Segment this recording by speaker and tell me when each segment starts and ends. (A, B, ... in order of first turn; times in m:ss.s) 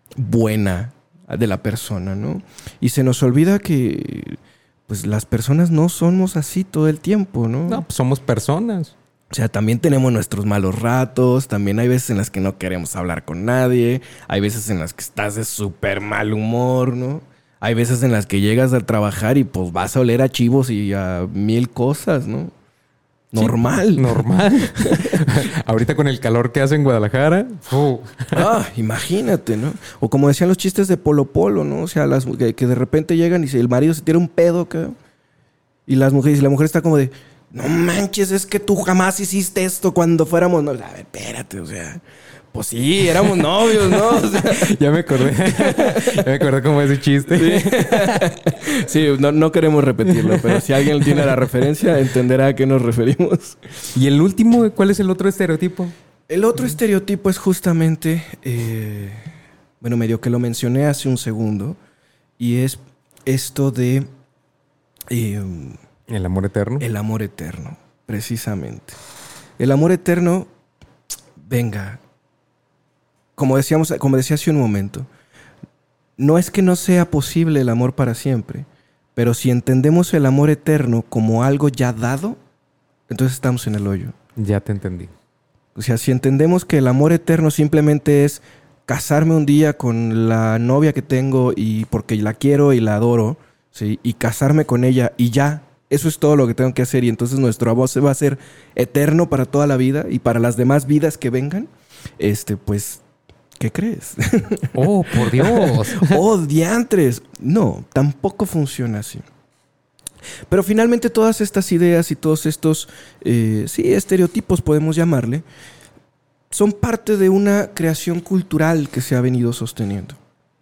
0:00.2-0:07.8 A
0:07.7-0:08.9 B
0:09.3-0:22.5 A
0:23.3-0:25.2 A
0:23.4-0:28.4 B
0:28.3-0:35.0 A
0:35.9-0:46.2 A
0:43.8-0:48.3 B
0:47.3-0:53.6 A
0:50.1-0:51.3 B
0:54.0-0:55.9 B
0:56.3-0:59.3 A
0:59.8-1:01.8 A
1:02.4-1:04.1 A
1:05.1-1:05.8 A
1:06.1-1:06.9 B
1:06.8-1:09.0 A
1:09.6-1:10.5 A
1:11.4-1:12.0 A
1:13.4-1:15.1 A
1:16.2-1:22.4 A
1:23.1-1:24.2 A
1:24.4-1:25.1 B
1:25.8-1:43.0 A
1:43.6-1:49.2 A
1:44.7-1:46.2 B
1:50.5-1:55.4 A
1:56.5-2:00.2 A